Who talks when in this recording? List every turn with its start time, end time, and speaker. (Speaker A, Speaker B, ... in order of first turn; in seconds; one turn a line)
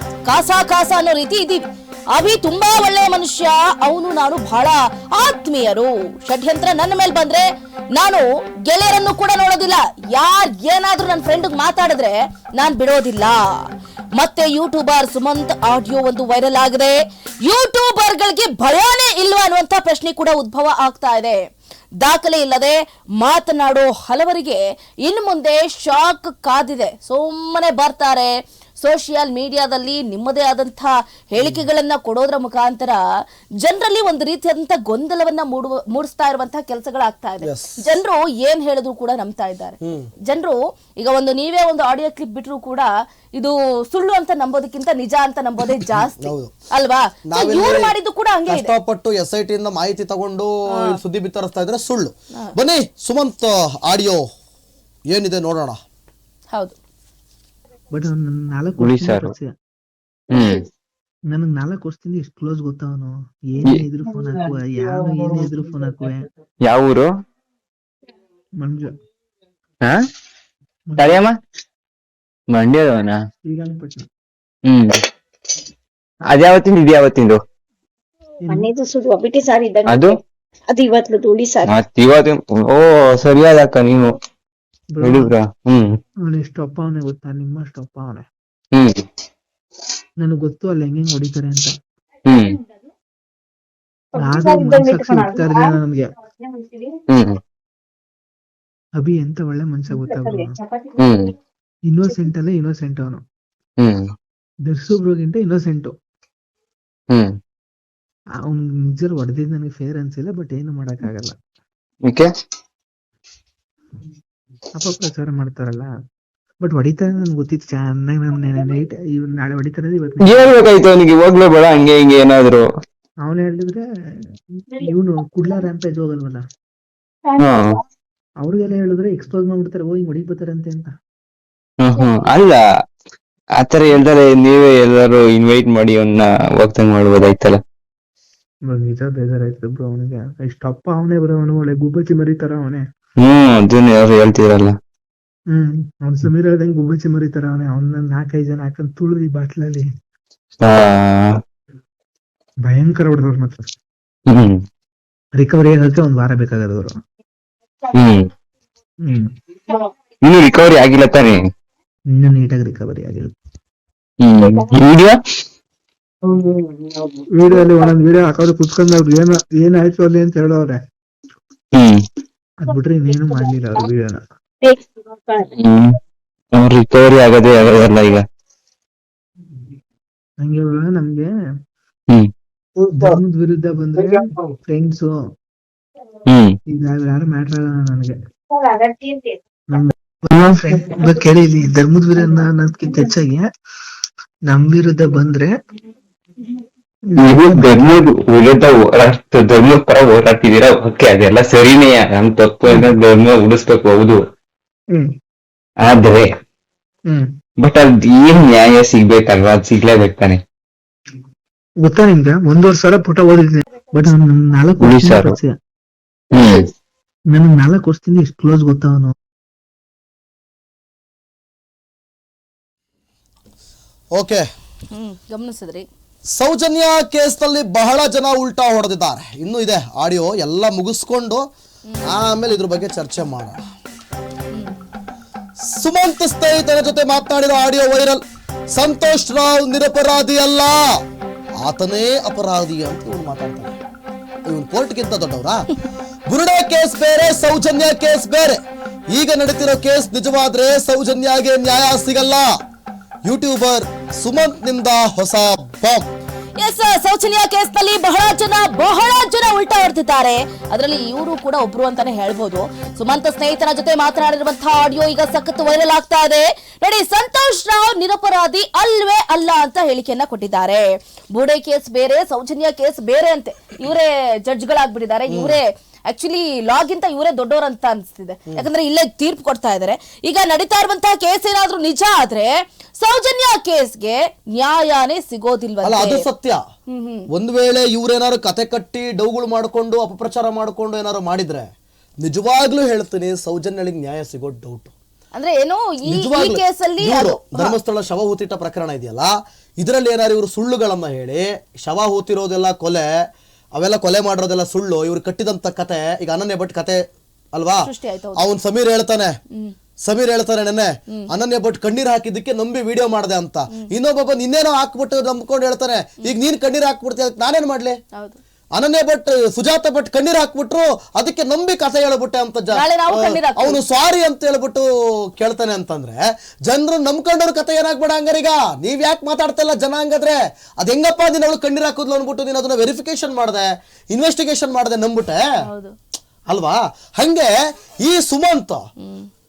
Speaker A: 0.3-1.6
Speaker A: 2.1-13.5
Speaker A: 14.2-21.4
Speaker A: 22.0-33.0
Speaker B: 31.4-31.7
Speaker A: 33.6-48.7
Speaker B: 37.4-37.8
Speaker B: 39.8-40.1
Speaker B: 46.0-46.5
Speaker B: 47.3-47.9
Speaker B: 48.5-54.2
Speaker B: 55.1-55.8
Speaker C: 57.9-59.5
Speaker D: 58.8-59.3
Speaker D: 60.3-60.6
Speaker C: 61.3-66.2
Speaker D: 66.7-67.1
Speaker C: 68.6-68.9
Speaker C: 70.9-71.2
Speaker D: 71.0-71.4
Speaker D: 72.5-73.2
Speaker C: 73.5-74.1
Speaker D: 76.3-77.4
Speaker E: 78.5-80.1
Speaker D: 79.9-80.2
Speaker E: 80.7-81.7
Speaker D: 81.6-84.2
Speaker C: 85.0-85.3
Speaker D: 85.0-85.9
Speaker C: 86.3-88.2
Speaker D: 88.7-89.0
Speaker C: 90.2-91.7
Speaker D: 92.3-92.6
Speaker E: 94.2-95.7
Speaker C: 94.2-96.0
Speaker E: 96.4-96.9
Speaker D: 97.1-97.4
Speaker C: 99.0-100.5
Speaker E: 99.9-101.0
Speaker D: 101.0-101.3
Speaker C: 101.9-103.2
Speaker D: 103.8-104.0
Speaker C: 104.7-105.9
Speaker C: 108.4-111.4
Speaker C: 114.8-115.9
Speaker C: 116.6-120.6
Speaker D: 120.2-122.7
Speaker C: 123.2-123.8
Speaker C: 124.6-126.4
Speaker E: 127.3-127.6
Speaker D: 127.4-127.8
Speaker C: 128.4-130.9
Speaker D: 131.8-132.6
Speaker E: 132.0-132.2
Speaker D: 133.6-137.6
Speaker C: 138.7-142.8
Speaker D: 143.2-144.8
Speaker C: 145.5-149.9
Speaker D: 150.6-151.3
Speaker C: 152.7-153.7
Speaker D: 154.3-154.6
Speaker C: 155.4-156.9
Speaker D: 157.9-158.2
Speaker D: 160.2-161.4
Speaker C: 162.1-163.3
Speaker D: 164.2-165.2
Speaker E: 166.8-167.1
Speaker C: 167.3-170.8
Speaker C: 172.6-174.2
Speaker E: 173.1-173.8
Speaker E: 174.6-175.5
Speaker D: 175.6-175.9
Speaker D: 176.6-178.2
Speaker C: 180.4-181.3
Speaker C: 182.9-185.1
Speaker C: 186.7-188.2
Speaker E: 188.5-189.4
Speaker C: 189.7-193.5
Speaker C: 194.5-195.5
Speaker C: 197.1-197.9
Speaker D: 197.2-204.2
Speaker D: 205.8-206.2
Speaker D: 207.6-210.4
Speaker C: 211.8-215.5
Speaker D: 214.8-215.3
Speaker D: 216.3-216.7
Speaker C: 217.3-219.1
Speaker B: 224.2-224.5
Speaker A: 224.9-225.9
Speaker B: 226.3-231.5
Speaker A: 231.9-232.2
Speaker B: 232.1-233.6
Speaker B: 235.7-238.2
Speaker B: 238.7-240.8
Speaker B: 241.6-243.8
Speaker B: 244.5-245.7
Speaker B: 246.3-248.6
Speaker B: 249.1-252.5
Speaker B: 253.2-256.1
Speaker A: 256.6-286.2
Speaker B: 275.3-275.6
Speaker B: 285.8-286.6
Speaker A: 286.9-287.3
Speaker B: 287.3-291.7
Speaker B: 292.2-294.9
Speaker A: 295.3-297.8
Speaker B: 296.1-303.1
Speaker B: 303.8-307.0
Speaker B: 307.5-307.8
Speaker A: 307.8-308.4
Speaker B: 308.4-309.4
Speaker B: 310.0-318.0
Speaker B: 318.8-335.4
Speaker A: 322.7-323.8
Speaker A: 335.6-335.9
Speaker B: 336.5-338.8
Speaker A: 339.0-339.3